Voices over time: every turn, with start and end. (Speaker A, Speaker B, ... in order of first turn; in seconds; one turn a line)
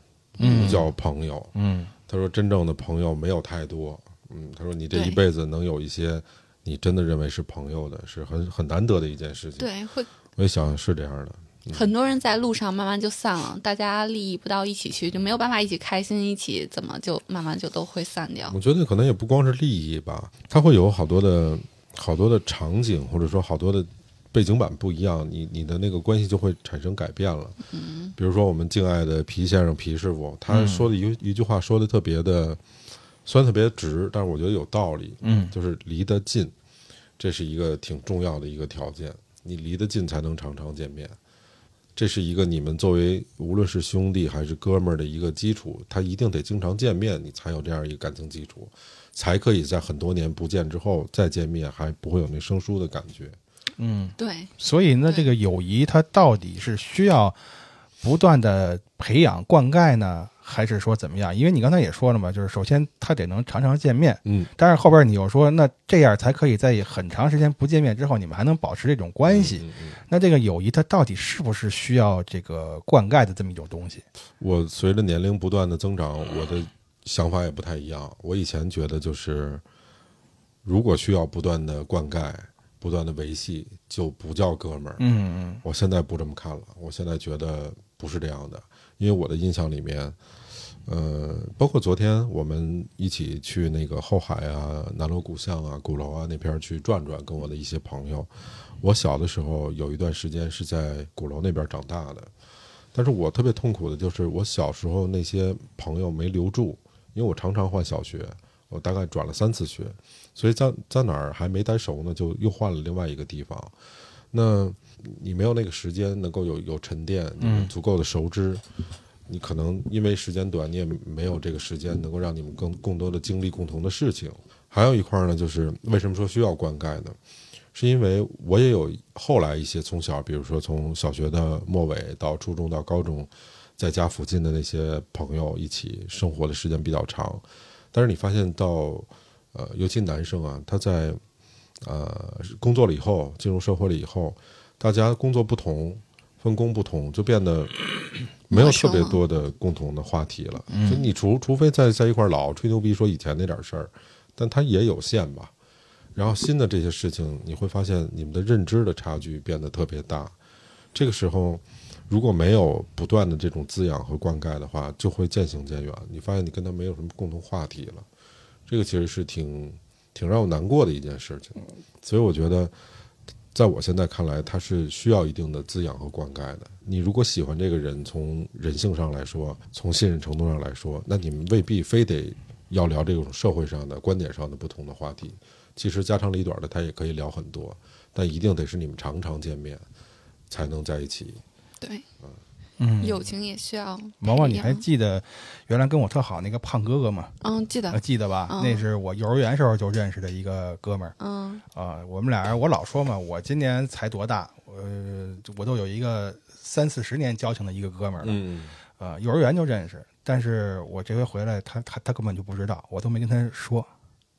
Speaker A: 0.4-0.8
Speaker B: 0.4-0.9
Speaker C: 0.4-1.5
Speaker B: 1.6-1.9
Speaker C: 2.1-9.7
Speaker A: 4.9-5.2
Speaker A: 9.6-10.1
Speaker C: 10.4-11.9
Speaker A: 11.7-18.6
Speaker C: 18.5-27.6
Speaker A: 27.7-28.1
Speaker C: 28.2-32.6
Speaker B: 30.5-30.9
Speaker C: 33.2-36.5
Speaker B: 35.2-35.5
Speaker C: 37.2-41.2
Speaker C: 42.0-53.4
Speaker B: 53.8-57.4
Speaker A: 54.2-54.5
Speaker B: 58.0-74.0
Speaker C: 69.2-70.0
Speaker C: 74.4-79.6
Speaker C: 80.6-85.0
Speaker B: 85.0-85.6
Speaker C: 85.6-90.2
Speaker C: 90.8-98.3
Speaker C: 98.8-102.3
Speaker C: 102.9-113.7
Speaker C: 114.3-118.6
Speaker B: 117.4-117.7
Speaker C: 119.3-127.2
Speaker C: 127.7-141.2
Speaker C: 141.8-147.7
Speaker C: 148.5-155.5
Speaker A: 148.5-149.2
Speaker B: 150.7-151.1
Speaker C: 156.2-160.3
Speaker C: 160.9-168.1
Speaker C: 168.7-172.7
Speaker C: 173.5-189.8
Speaker C: 190.5-191.4
Speaker B: 192.8-193.3
Speaker A: 193.0-194.8
Speaker B: 194.2-197.3
Speaker A: 197.4-198.8
Speaker B: 197.9-201.2
Speaker A: 201.2-201.6
Speaker B: 201.7-208.4
Speaker C: 208.2-208.8
Speaker B: 209.0-213.9